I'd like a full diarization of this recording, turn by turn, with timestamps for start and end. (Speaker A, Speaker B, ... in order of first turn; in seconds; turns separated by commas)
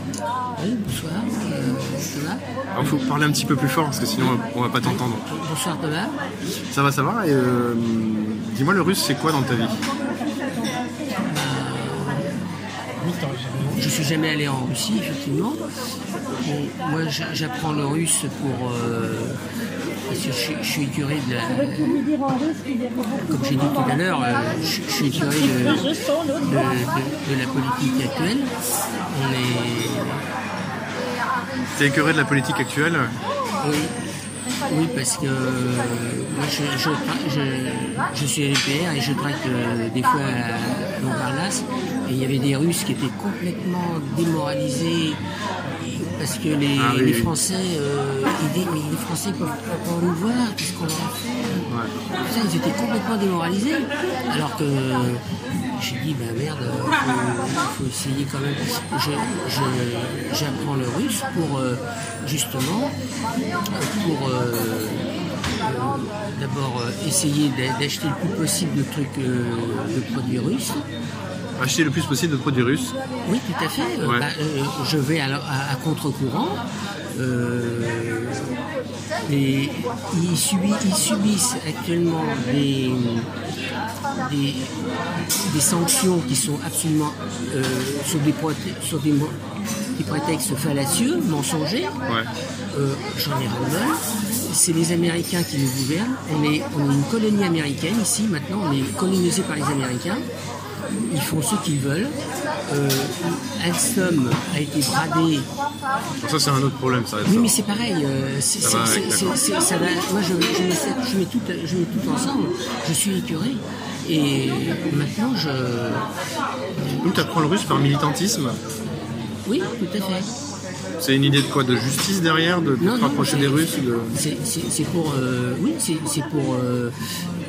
Speaker A: 0.6-2.4, Speaker B: 2.7-5.3, Speaker A: 4.2-6.2, Speaker B: 6.7-9.8, Speaker A: 11.2-12.4, Speaker B: 13.0-13.7, Speaker A: 13.7-15.6, Speaker A: 16.4-19.4, Speaker A: 20.1-22.2, Speaker A: 23.1-28.5, Speaker A: 29.1-30.3, Speaker B: 31.7-33.1, Speaker A: 33.6-34.0, Speaker A: 34.6-51.2, Speaker B: 46.8-47.3, Speaker B: 51.7-51.9, Speaker A: 52.2-55.2, Speaker A: 55.7-62.9, Speaker A: 63.7-70.9, Speaker B: 71.6-72.9, Speaker A: 73.2-78.6, Speaker B: 74.0-74.3, Speaker A: 79.2-83.3, Speaker A: 84.1-84.8, Speaker A: 85.4-89.4, Speaker A: 90.0-92.0, Speaker A: 92.7-100.3, Speaker A: 101.1-102.1, Speaker A: 102.7-105.5, Speaker B: 106.2-107.5, Speaker A: 107.2-116.1, Speaker B: 108.6-109.4, Speaker A: 116.8-117.3, Speaker B: 117.0-118.6, Speaker A: 119.5-120.3, Speaker B: 121.0-124.2, Speaker A: 122.8-126.9